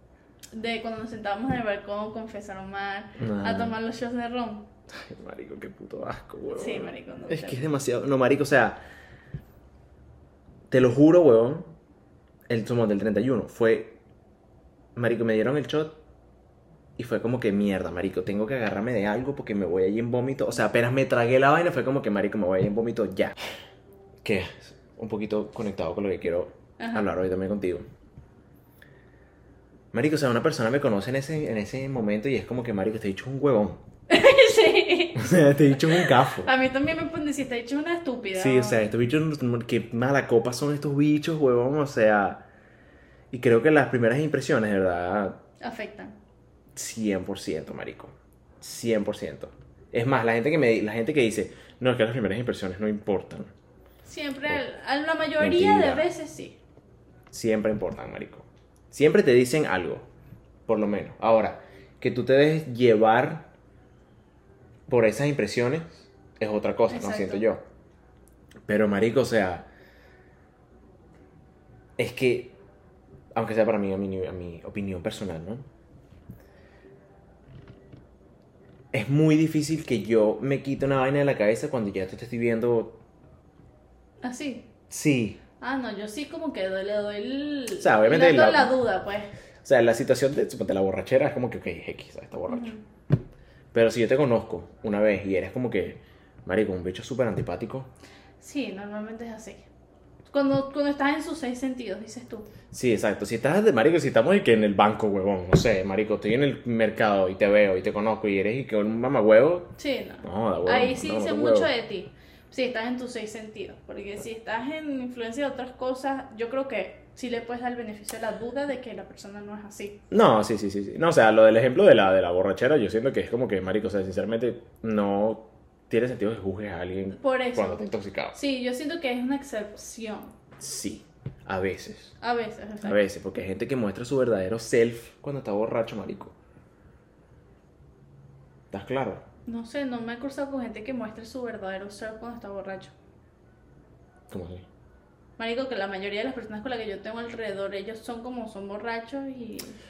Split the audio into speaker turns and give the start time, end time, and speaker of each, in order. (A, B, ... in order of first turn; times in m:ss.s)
0:00.5-0:04.7 A
0:03.2-0:03.8 B
0:04.9-0:08.8 B
0:06.5-0:07.6 A
0:10.7-0:11.7 B
0:12.5-0:14.0 B
0:15.0-0:16.0 B
0:17.0-0:23.3 B
0:24.2-0:27.9 B
0:26.8-0:27.1 A
0:29.9-0:33.8 B
0:34.1-0:38.9 A
0:35.2-0:36.5 B
0:38.4-0:42.4 B
0:43.3-0:45.4 B
0:45.6-0:46.2 A
0:46.8-0:53.5 B
0:54.0-0:56.6 A
0:55.4-0:56.0 B
0:57.3-1:00.0 B
1:00.7-1:03.5 B
1:04.9-1:07.6 B
1:06.9-1:07.4 A
1:08.7-1:09.7 B
1:12.0-1:12.5 B
1:13.4-1:15.6 B
1:18.9-1:23.0 B
1:24.2-1:24.7 A
1:24.9-1:25.4 B
1:25.6-1:29.3 A
1:27.8-1:28.8 B
1:29.6-1:32.7 B
1:32.5-1:32.8 A
1:33.7-1:37.9 B
1:38.4-1:39.6 A
1:40.3-1:42.5 A
1:42.7-1:49.7 B
1:49.8-2:00.0 A
1:50.2-1:51.7 B
2:00.1-2:08.4 B
2:07.1-2:10.4 A
2:10.6-2:12.1 B
2:12.2-2:13.0 A
2:12.8-2:16.4 B
2:18.7-2:19.2 B
2:19.5-2:22.9 A
2:24.3-2:24.6 B
2:25.4-2:29.8 A